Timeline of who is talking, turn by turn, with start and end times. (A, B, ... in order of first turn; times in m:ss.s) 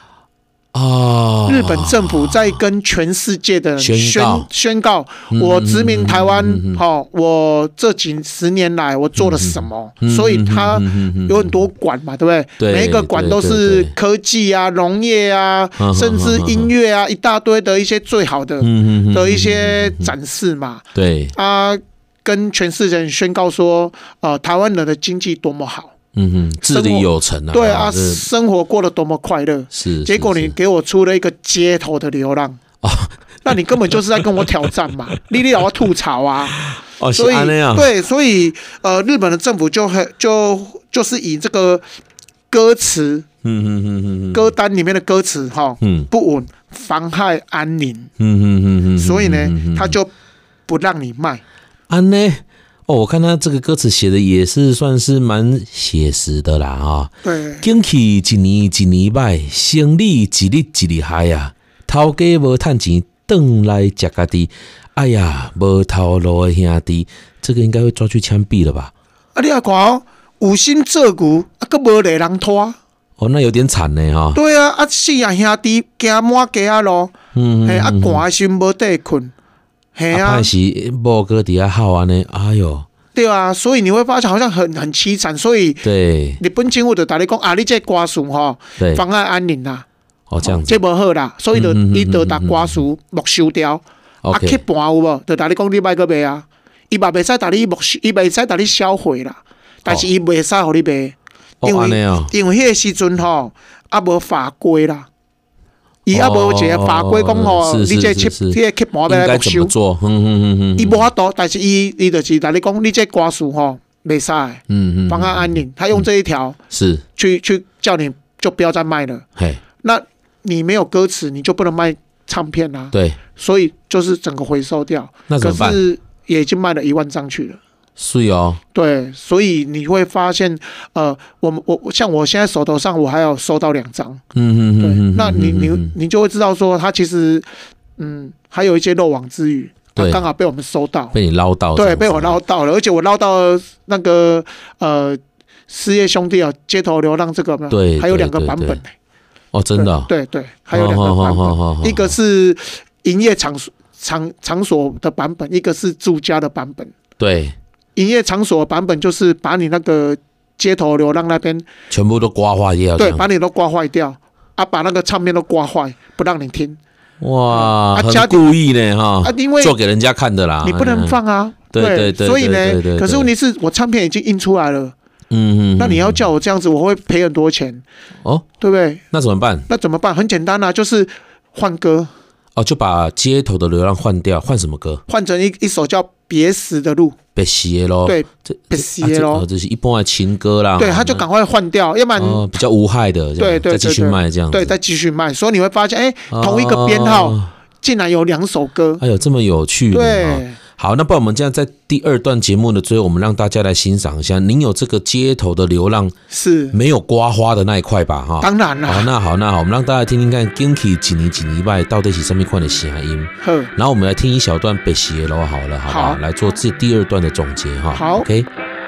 0:00.7-0:02.6 A
0:01.4-0:25.9 B
0:03.8-0:04.5 A
0:05.3-0:06.8 A
0:09.2-0:11.5 A
0:12.6-0:13.9 A
0:15.8-0:16.7 A
0:18.6-0:20.1 A
0:20.9-0:21.3 A
0:26.1-0:28.2 A
0:26.7-0:32.6 B
0:29.7-0:30.5 A
0:32.8-0:33.5 A
0:33.4-0:36.6 B
0:34.2-0:34.5 A
0:36.6-0:37.9 A
0:37.1-0:41.8 B
0:42.5-0:43.2 B
0:43.4-0:44.5 A
0:44.3-0:48.1 B
0:45.8-0:46.1 A
0:48.2-0:50.0 A
0:49.0-0:50.1 B
0:50.7-0:51.4 B
0:51.9-1:08.9 A
0:57.2-0:57.6 B
1:09.3-1:12.8 B
1:13.2-1:14.4 A
1:14.3-1:17.1 B
1:17.3-1:18.2 A
1:17.6-1:19.3 B
1:19.9-1:20.5 B
1:20.1-1:22.8 A
1:23.1-1:25.8 B
1:25.8-1:26.4 A
1:26.4-1:29.8 B
1:30.3-1:30.8 A
1:30.4-1:45.1 B
1:31.5-1:32.8 A
1:34.2-1:34.6 A
1:41.6-1:42.3 A
1:46.0-1:49.7 B
1:46.1-1:51.0 A
1:50.8-1:56.6 B
1:54.7-1:56.0 A
1:56.7-1:57.0 A
1:57.2-1:59.2 B
1:59.8-2:07.6 B
2:02.9-2:03.2 A
2:05.3-2:05.8 A
2:08.0-2:08.6 A
2:08.7-2:14.2 B
2:14.3-2:15.9 A
2:14.8-2:17.5 B
2:18.0-2:21.2 B
2:20.0-2:20.2 A
2:21.1-2:22.4 A
2:21.7-2:28.9 B
2:27.7-2:28.8 A
2:29.5-2:30.1 A
2:29.7-2:36.9 B
2:30.7-2:32.1 A
2:37.2-2:37.5 A
2:38.0-2:41.6 B
2:41.9-2:43.2 A
2:43.0-2:46.8 B
2:47.2-2:51.2 A
2:47.5-2:48.4 B
2:49.2-2:49.8 B
2:50.6-2:54.9 B
2:51.7-2:53.3 A
2:55.3-2:56.2 A
2:55.8-2:57.8 B
2:58.6-2:59.0 B
2:59.1-2:59.7 A
2:59.7-3:02.1 B
3:02.6-3:05.0 A
3:05.1-3:07.2 B
3:07.3-3:11.2 A
3:08.0-3:09.5 B
3:10.8-3:12.5 B
3:12.1-3:14.7 A
3:13.4-3:19.0 B
3:16.3-3:17.5 A
3:19.0-3:26.1 A
3:19.9-3:20.6 B
3:26.3-3:26.8 B
3:26.7-3:38.5 A
3:28.4-3:29.1 B
3:33.4-3:33.7 B
3:35.9-3:36.2 B
3:37.9-3:38.3 B